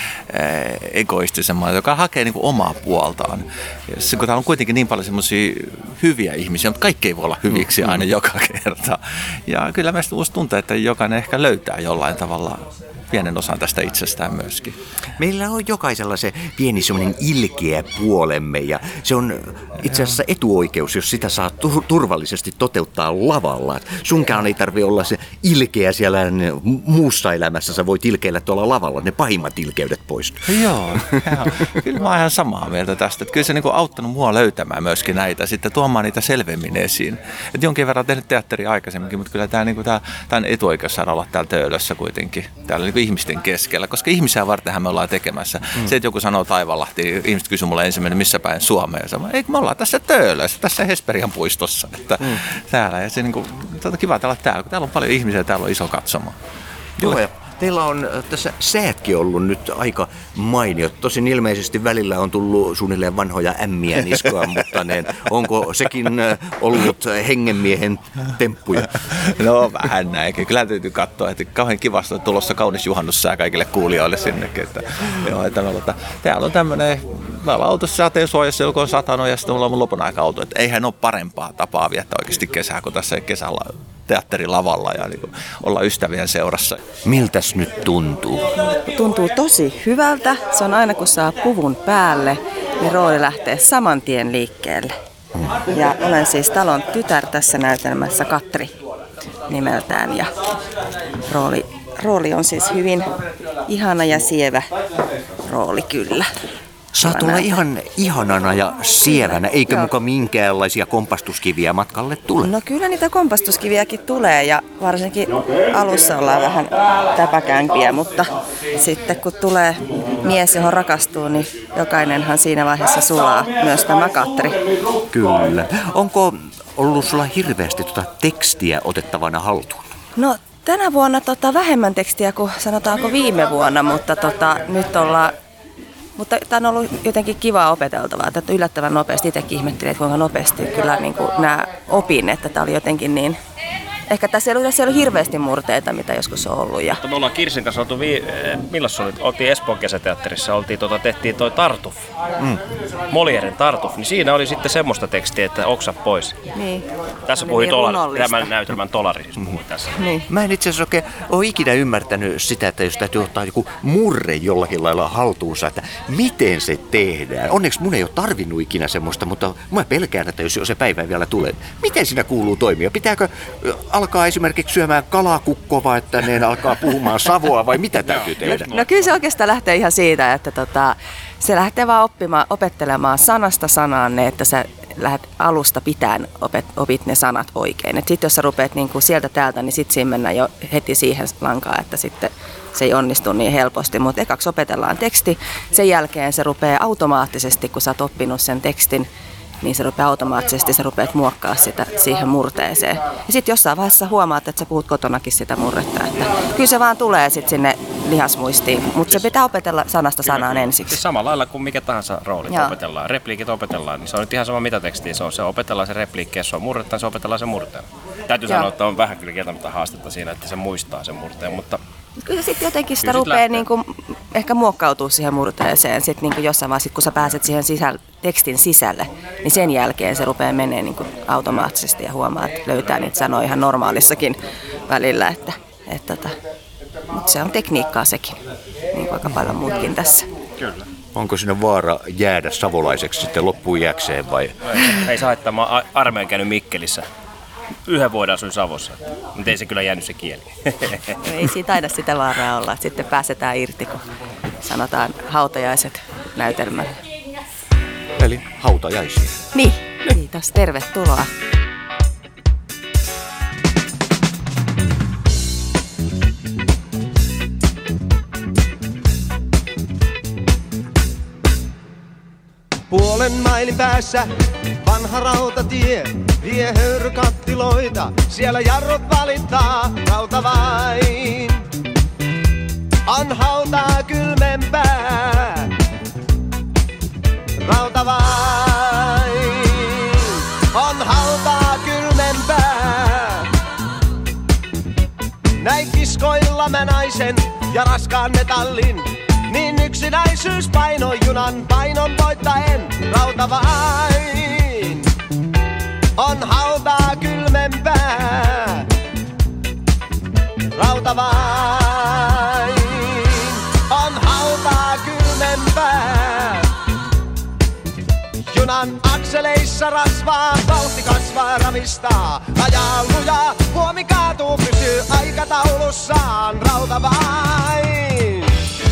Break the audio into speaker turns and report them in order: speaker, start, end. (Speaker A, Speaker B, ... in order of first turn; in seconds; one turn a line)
Speaker A: 0.3-14.7
Speaker B: 15.2-31.7
Speaker A: 30.5-56.4
Speaker B: 57.0-69.0
Speaker A: 69.3-86.8
Speaker B: 87.0-88.5
Speaker C: 88.7-94.9
Speaker C: 95.7-98.7
Speaker C: 99.5-100.3
Speaker C: 101.3-103.1
Speaker C: 103.7-104.7
Speaker C: 105.5-106.3
Speaker B: 106.9-112.5
Speaker C: 107.0-107.5
Speaker C: 109.2-109.9
Speaker C: 112.4-124.6
Speaker B: 125.1-129.9
Speaker C: 130.2-135.3
Speaker C: 136.2-143.4
Speaker C: 144.1-147.0
Speaker D: 147.0-152.0
Speaker D: 153.1-156.4
Speaker C: 156.5-158.5
Speaker D: 157.3-160.0
Speaker C: 160.0-160.2
Speaker B: 160.3-178.7
Speaker C: 178.5-199.1
Speaker C: 199.6-211.0
Speaker D: 210.2-221.8
Speaker C: 212.5-212.7
Speaker C: 222.2-234.4
Speaker D: 223.0-223.6
Speaker C: 234.9-236.3
Speaker C: 237.1-238.4
Speaker C: 238.9-240.3
Speaker B: 241.1-244.6
Speaker D: 245.0-247.1
Speaker D: 247.9-251.0
Speaker C: 251.2-254.0
Speaker C: 254.6-256.9
Speaker B: 258.2-259.4
Speaker C: 259.5-261.3
Speaker E: 272.9-274.3
Speaker E: 274.8-281.6
Speaker E: 283.1-285.7
Speaker E: 287.6-293.5
Speaker E: 295.6-305.1
Speaker E: 306.2-308.9
Speaker E: 310.7-316.7
Speaker E: 318.5-328.5